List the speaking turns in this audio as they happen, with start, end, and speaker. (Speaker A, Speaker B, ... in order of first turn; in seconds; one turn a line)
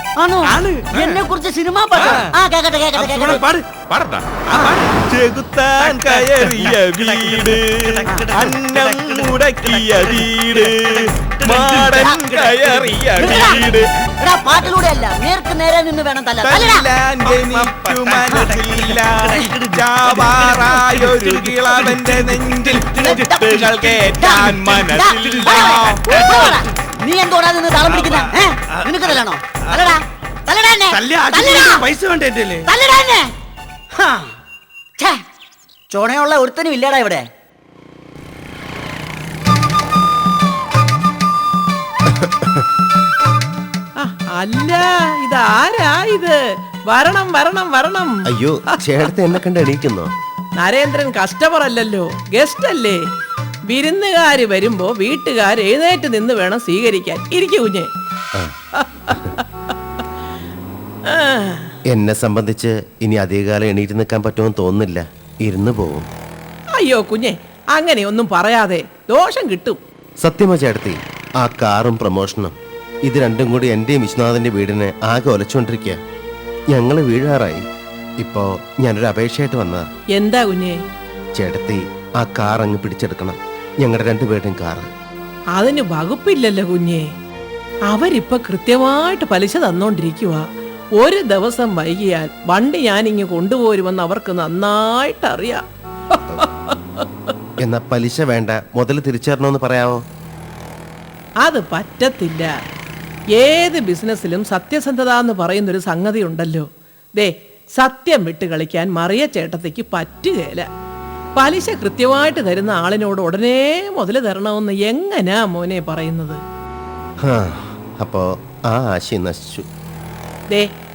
Speaker A: 0.2-3.5
Speaker B: 0.4-0.9
Speaker C: 0.9-1.2
Speaker C: 1.9-2.2
Speaker B: 2.0-2.4
Speaker B: 2.9-3.7
Speaker C: 3.0-13.9
Speaker B: 4.5-5.0
Speaker B: 5.8-13.1
Speaker A: 13.1-13.7
Speaker A: 14.2-16.9
Speaker C: 16.4-26.5
Speaker B: 17.2-23.3
Speaker A: 22.9-31.8
Speaker B: 25.2-26.6
Speaker B: 27.8-29.8
Speaker B: 30.9-32.7
Speaker A: 32.6-33.3
Speaker A: 33.9-34.3
Speaker A: 35.0-35.2
Speaker A: 35.9-37.3
Speaker D: 42.1-42.6
Speaker E: 44.0-46.4
Speaker E: 46.9-48.2
Speaker D: 48.3-50.1
Speaker E: 50.6-53.0
Speaker E: 53.7-57.9
Speaker E: 58.8-59.4
Speaker E: 61.1-61.7
Speaker D: 61.9-66.1
Speaker E: 66.8-69.8
Speaker D: 70.2-76.0
Speaker D: 76.7-77.6
Speaker D: 78.2-79.9
Speaker E: 80.1-80.8
Speaker D: 81.3-84.9
Speaker E: 85.5-87.0
Speaker E: 87.9-90.4
Speaker E: 91.0-95.6
Speaker E: 96.2-96.5
Speaker D: 97.6-100.0
Speaker E: 101.4-102.5
Speaker E: 103.3-110.7
Speaker E: 111.3-116.4
Speaker D: 117.2-119.7